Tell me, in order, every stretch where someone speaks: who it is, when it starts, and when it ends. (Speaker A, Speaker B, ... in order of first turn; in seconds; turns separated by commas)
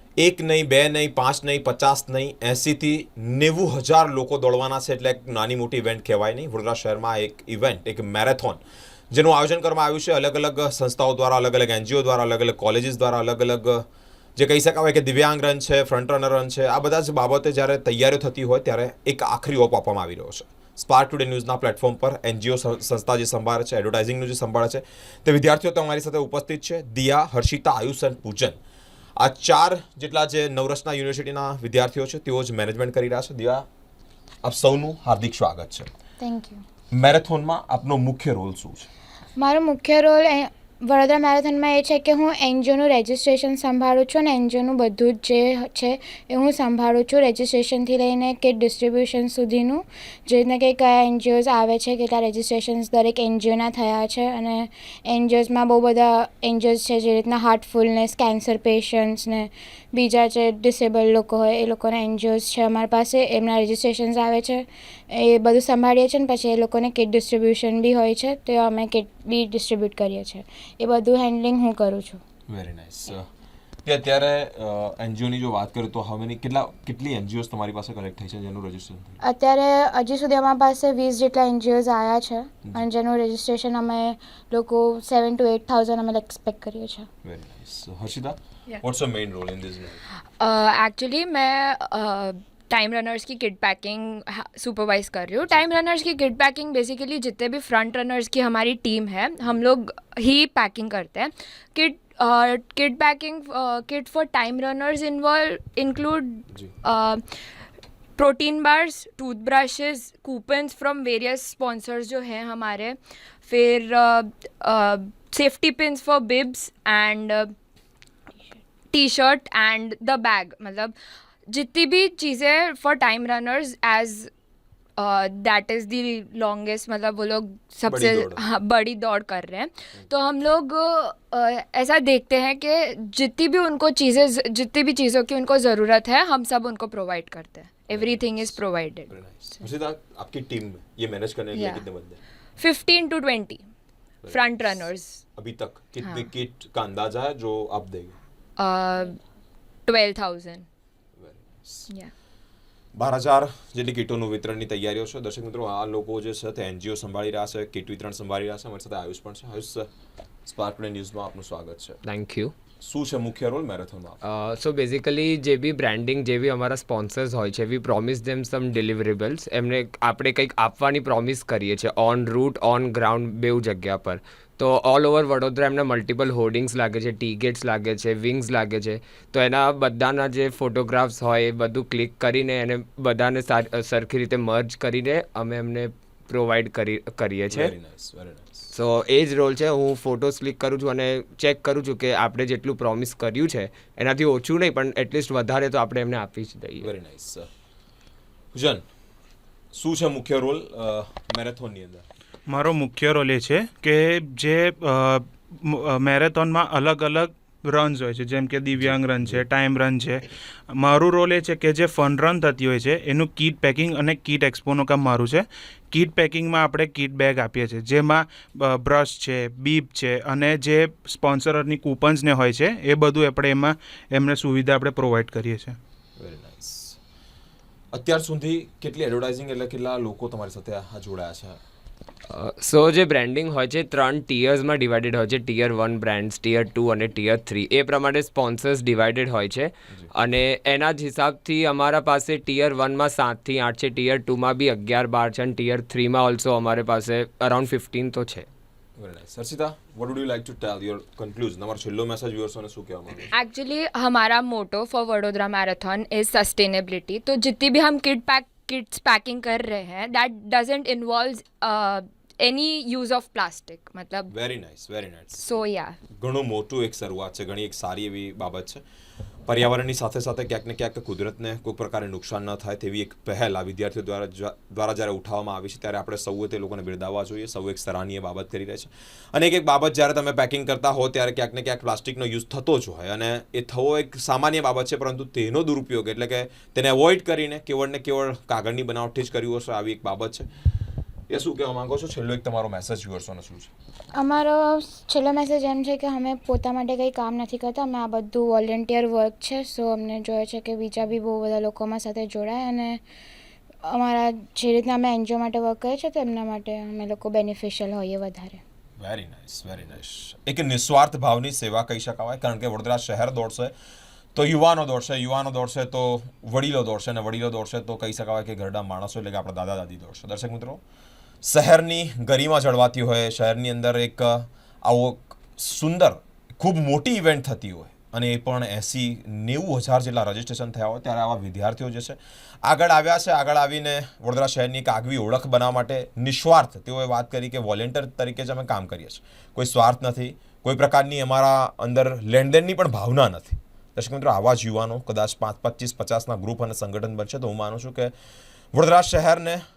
Speaker A: 0.2-8.6, Speaker A: 9.1-13.8, Speaker A: 14.4-28.6, Speaker A: 29.2-33.6, Speaker A: 34.4-35.9, Speaker B: 36.2-36.6, Speaker A: 36.9-38.9, Speaker B: 39.4-72.2, Speaker A: 72.5-73.3, Speaker A: 73.8-79.2, Speaker B: 79.2-87.1, Speaker A: 87.2-90.0, Speaker C: 90.4-107.4, Speaker C: 108.2-117.5, Speaker C: 118.9-121.0, Speaker C: 121.5-124.3, Speaker C: 125.0-139.1, Speaker A: 127.8-128.4, Speaker A: 137.9-142.2, Speaker C: 141.5-141.8, Speaker C: 142.6-143.7, Speaker A: 144.2-144.8, Speaker C: 144.3-145.2, Speaker A: 145.3-148.2, Speaker C: 148.6-149.2, Speaker C: 149.8-150.7, Speaker A: 151.2-151.9, Speaker A: 152.9-159.9, Speaker A: 160.4-162.0, Speaker D: 162.0-162.5, Speaker A: 162.8-164.2, Speaker D: 164.2-187.7, Speaker A: 187.5-188.7, Speaker D: 188.7-196.8, Speaker A: 196.8-197.5, Speaker A: 198.5-198.8, Speaker A: 199.7-202.0, Speaker E: 202.5-225.8, Speaker A: 208.8-209.4, Speaker A: 226.2-227.0, Speaker A: 227.9-231.6, Speaker D: 232.3-248.5, Speaker A: 249.0-253.3, Speaker C: 253.3-264.3, Speaker A: 264.3-265.6, Speaker C: 265.4-266.0, Speaker A: 266.2-268.8, Speaker A: 269.4-290.5, Speaker A: 291.3-293.7, Speaker B: 294.2-303.0, Speaker B: 303.9-308.6, Speaker A: 309.0-313.7, Speaker A: 314.3-320.8, Speaker A: 321.4-348.1, Speaker A: 348.7-349.6